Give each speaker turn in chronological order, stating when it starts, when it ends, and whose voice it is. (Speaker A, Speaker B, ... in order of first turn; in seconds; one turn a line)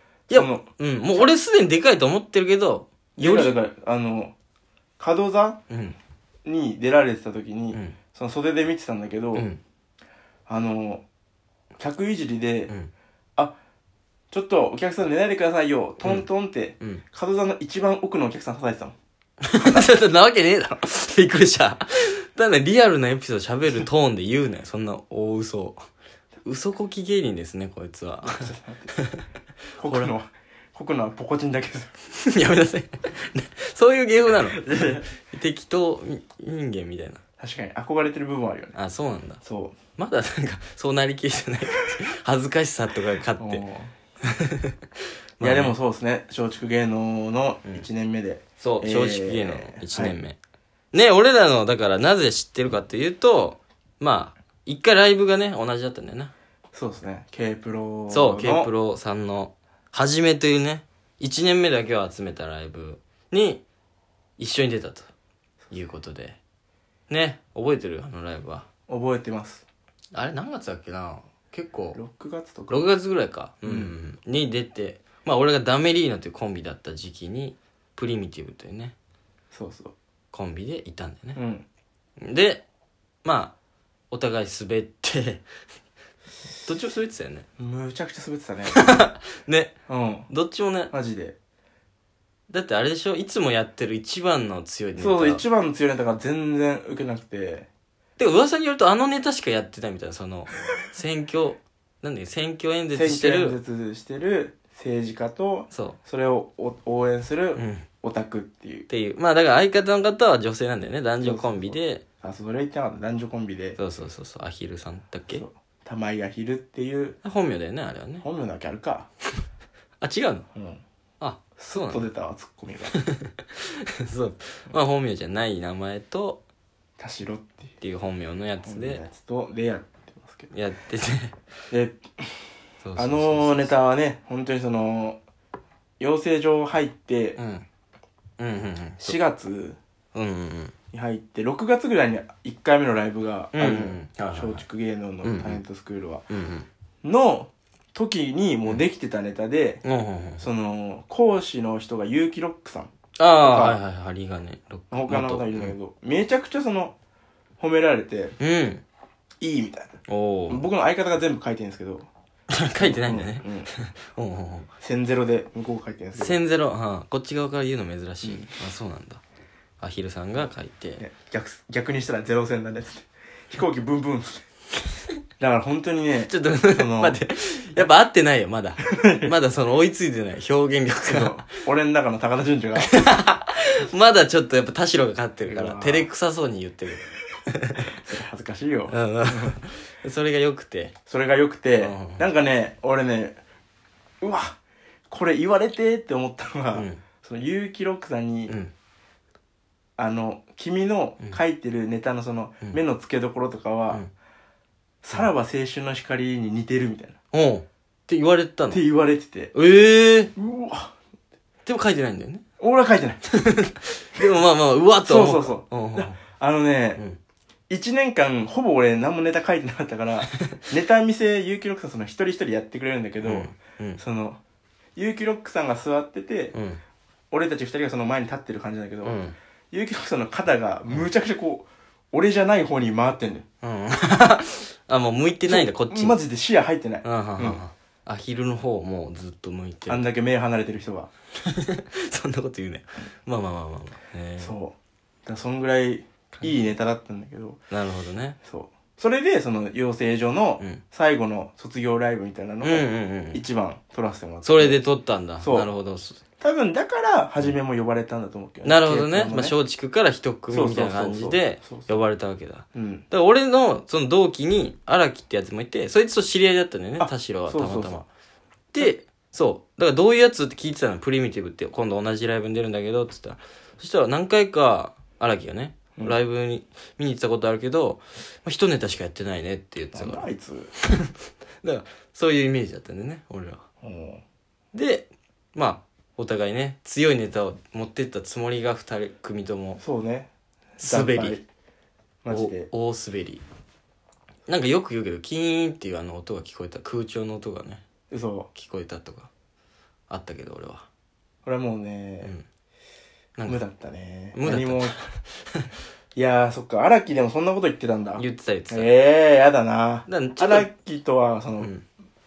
Speaker A: 0.3-3.6
Speaker B: 0.3-1.3
Speaker B: 3.2-4.3
Speaker B: 5.0-5.6
Speaker A: 5.7-6.0
Speaker B: 6.5-9.5
Speaker A: 9.3-9.6
Speaker B: 10.5-11.1
Speaker B: 11.8-12.7
Speaker B: 14.3-19.0
Speaker A: 19.4-25.8
Speaker B: 19.6-19.9
Speaker A: 26.4-29.2
Speaker B: 28.2-28.9
Speaker B: 29.8-31.9
Speaker A: 29.8-30.1
Speaker A: 32.1-37.2
Speaker B: 34.5-35.0
Speaker B: 37.4-38.8
Speaker A: 38.8-39.4
Speaker B: 39.4-39.8
Speaker A: 40.0-43.6
Speaker B: 43.4-43.9
Speaker A: 44.3-44.8
Speaker A: 45.4-45.8
Speaker B: 45.4-50.2
Speaker A: 48.6-50.4
Speaker A: 50.9-56.3
Speaker B: 56.7-58.7
Speaker A: 58.1-63.6
Speaker A: 64.4-65.1
Speaker A: 65.7-66.4
Speaker A: 67.1-68.7
Speaker B: 68.9-69.7
Speaker A: 70.1-72.0
Speaker B: 71.9-72.9
Speaker A: 72.7-78.9
Speaker B: 73.6-74.0
Speaker B: 79.5-80.0
Speaker A: 80.3-81.4
Speaker B: 81.3-81.7
Speaker A: 82.2-82.7
Speaker A: 83.2-83.5
Speaker A: 84.1-85.5
Speaker A: 86.6-87.5
Speaker B: 87.6-88.8
Speaker A: 88.7-89.8
Speaker B: 89.9-90.3
Speaker A: 90.3-90.9
Speaker B: 90.9-91.4
Speaker A: 92.5-95.5
Speaker B: 95.0-97.7
Speaker A: 98.2-103.6
Speaker B: 102.9-108.9
Speaker A: 105.7-106.0
Speaker A: 107.6-107.8
Speaker A: 108.9-112.0
Speaker B: 111.2-113.8
Speaker A: 113.8-115.4
Speaker B: 115.3-117.2
Speaker A: 117.2-118.3
Speaker B: 118.2-119.1
Speaker A: 120.0-120.5
Speaker B: 120.5-120.8
Speaker A: 121.2-122.1
Speaker B: 121.6-123.0
Speaker A: 123.0-126.4
Speaker B: 127.0-127.7
Speaker A: 127.8-129.0
Speaker B: 128.7-130.5
Speaker A: 130.5-131.4
Speaker B: 131.7-132.4
Speaker A: 132.8-133.8
Speaker B: 133.0-135.2
Speaker B: 136.0-137.4
Speaker A: 137.4-137.7
Speaker A: 138.4-139.2
Speaker B: 139.0-139.8
Speaker A: 140.1-140.7
Speaker B: 140.9-146.3
Speaker A: 143.5-144.6
Speaker A: 145.2-145.6
Speaker A: 146.3-146.7
Speaker B: 147.0-149.8
Speaker A: 149.8-150.5
Speaker B: 150.4-153.8
Speaker A: 153.2-155.8
Speaker B: 154.9-157.0
Speaker B: 157.6-158.4
Speaker A: 158.4-158.8
Speaker B: 159.4-159.9
Speaker A: 160.1-160.7
Speaker B: 160.5-162.1
Speaker A: 162.5-164.7
Speaker B: 162.8-163.7
Speaker B: 164.8-166.4
Speaker A: 166.2-169.2
Speaker B: 168.2-168.5
Speaker A: 169.8-171.0
Speaker B: 171.0-174.4
Speaker B: 175.4-177.2
Speaker A: 176.3-181.5
Speaker B: 178.8-179.3
Speaker B: 181.1-182.9
Speaker A: 182.8-188.0
Speaker B: 185.5-186.1
Speaker B: 187.9-189.6
Speaker A: 188.9-190.9
Speaker B: 191.1-193.4
Speaker A: 191.8-192.2
Speaker B: 194.2-194.6
Speaker B: 195.1-198.6
Speaker A: 196.8-197.0
Speaker B: 200.0-204.0
Speaker B: 205.0-207.2
Speaker A: 207.3-208.8
Speaker B: 208.7-209.5
Speaker A: 209.5-210.3
Speaker B: 210.4-210.9
Speaker A: 211.7-212.4
Speaker B: 212.6-213.2
Speaker A: 213.4-216.2
Speaker B: 215.1-217.0
Speaker B: 217.7-224.4
Speaker A: 223.2-224.0
Speaker B: 225.0-226.5
Speaker A: 226.5-226.8
Speaker B: 227.3-229.2
Speaker A: 229.0-229.3
Speaker B: 229.7-233.5
Speaker A: 233.6-236.2
Speaker B: 235.5-237.6
Speaker A: 237.0-240.1
Speaker B: 239.9-241.1
Speaker A: 241.5-244.5
Speaker B: 244.4-247.6
Speaker A: 246.3-246.6
Speaker A: 247.7-248.4
Speaker B: 248.5-254.8
Speaker A: 252.6-253.4
Speaker A: 254.4-256.2
Speaker B: 255.4-255.7
Speaker B: 256.4-259.6
Speaker A: 258.6-268.1
Speaker B: 260.5-262.0
Speaker B: 262.7-263.1
Speaker B: 267.0-268.0
Speaker A: 268.7-280.3
Speaker B: 279.9-280.7
Speaker A: 280.8-283.6
Speaker B: 283.8-284.2
Speaker A: 284.7-289.8
Speaker B: 289.8-291.4
Speaker A: 290.8-291.4
Speaker B: 292.2-292.7
Speaker A: 292.3-293.4
Speaker A: 294.5-297.8
Speaker B: 298.1-298.5
Speaker A: 298.5-299.3
Speaker A: 300.1-300.9
Speaker B: 301.4-302.3
Speaker B: 303.5-305.1
Speaker A: 304.4-305.6
Speaker B: 306.1-311.7
Speaker A: 308.2-308.9
Speaker A: 310.1-310.7